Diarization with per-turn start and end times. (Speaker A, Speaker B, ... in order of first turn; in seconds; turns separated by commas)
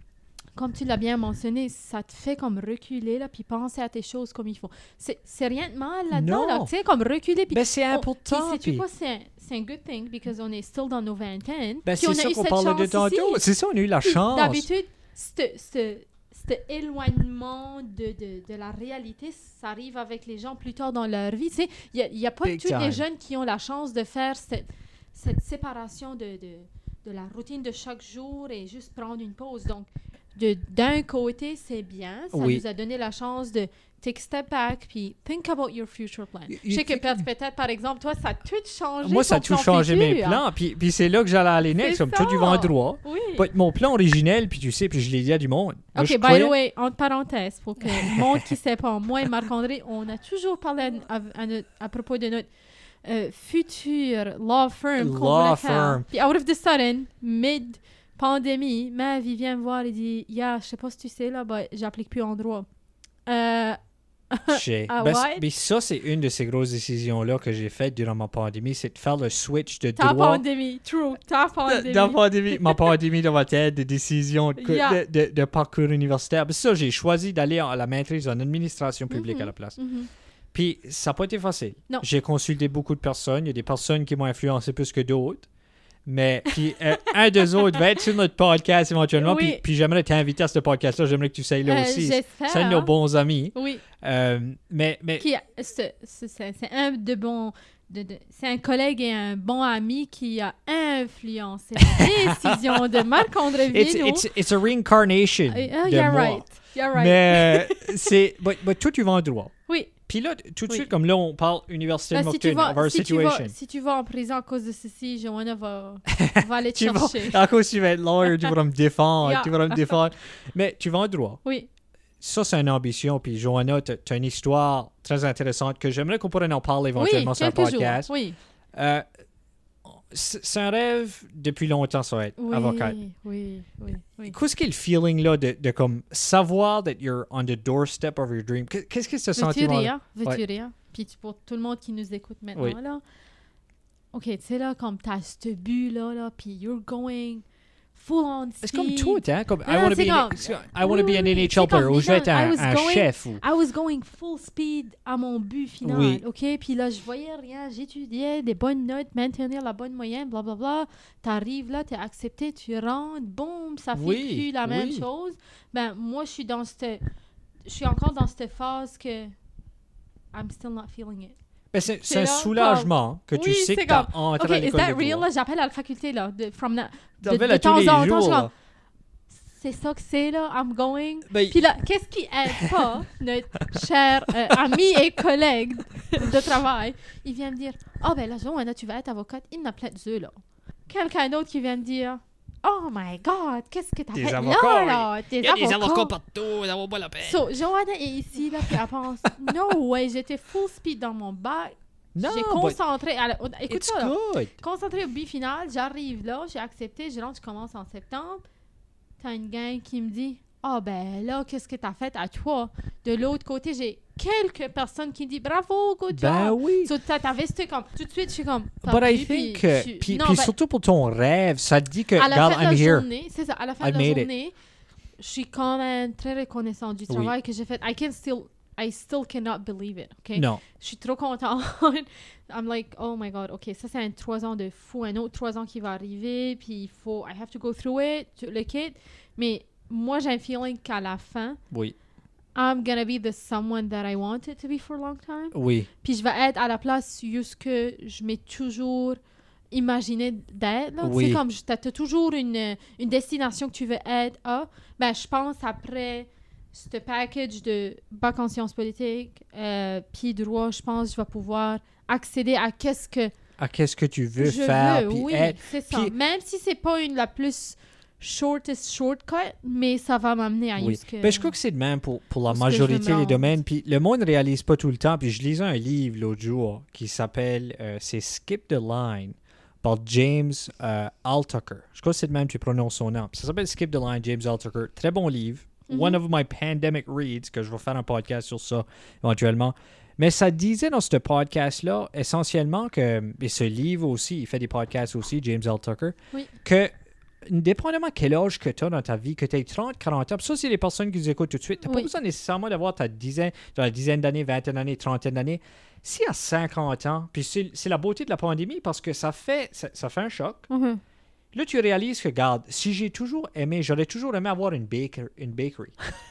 Speaker A: 0.6-13.4, Speaker B: 6.1-6.7, Speaker B: 7.5-8.8, Speaker B: 11.8-14.7, Speaker A: 14.0-40.4, Speaker B: 22.4-23.1, Speaker B: 32.3-32.6, Speaker B: 36.5-37.3, Speaker B: 39.0-46.5, Speaker A: 41.8-43.5, Speaker A: 46.0-52.5, Speaker B: 47.9-48.5, Speaker A: 53.0-62.7, Speaker B: 55.0-56.1, Speaker A: 63.3-63.8, Speaker A: 64.3-65.4, Speaker B: 64.5-70.4, Speaker A: 70.0-72.9, Speaker B: 71.7-79.8, Speaker A: 74.6-75.0, Speaker A: 79.1-80.1, Speaker B: 80.5-85.5, Speaker B: 86.1-95.3, Speaker A: 86.9-87.8, Speaker A: 89.2-89.6, Speaker A: 91.7-92.9, Speaker A: 93.5-93.8, Speaker A: 95.2-104.3, Speaker B: 101.9-103.0, Speaker B: 103.7-109.5, Speaker A: 105.5-108.1, Speaker A: 109.7-109.9, Speaker B: 110.1-113.5, Speaker A: 112.1-117.4, Speaker B: 116.1-121.4, Speaker A: 119.2-120.0, Speaker B: 122.2-128.1, Speaker A: 127.0-128.4, Speaker B: 128.7-129.1, Speaker B: 129.9-133.0, Speaker A: 132.4-134.3, Speaker B: 134.3-140.4, Speaker A: 139.4-143.0, Speaker A: 144.1-147.4, Speaker A: 147.9-167.0, Speaker B: 148.6-153.4, Speaker B: 155.8-156.2, Speaker B: 163.9-165.1, Speaker A: 167.7-169.3, Speaker A: 170.3-171.3, Speaker B: 171.7-175.3, Speaker A: 172.1-178.5, Speaker B: 177.2-178.5, Speaker A: 179.3-190.4, Speaker B: 181.3-181.6, Speaker B: 182.5-183.0, Speaker A: 190.9-196.1, Speaker B: 194.1-197.4, Speaker A: 197.2-208.4, Speaker B: 198.6-199.5, Speaker B: 202.2-202.8, Speaker B: 203.7-204.5, Speaker A: 209.2-220.5, Speaker B: 216.1-216.9, Speaker B: 218.8-223.1, Speaker A: 222.2-224.5, Speaker B: 223.8-224.3, Speaker A: 225.2-241.6, Speaker B: 230.3-230.6, Speaker B: 241.7-242.0, Speaker A: 242.6-249.2, Speaker B: 245.5-245.9, Speaker A: 249.7-263.3, Speaker B: 251.0-251.4, Speaker B: 263.6-266.1, Speaker A: 264.4-271.5, Speaker B: 270.8-296.9, Speaker A: 272.5-273.6, Speaker A: 285.9-286.2, Speaker B: 297.4-310.7, Speaker A: 301.8-302.1, Speaker A: 310.7-311.0, Speaker B: 311.5-316.0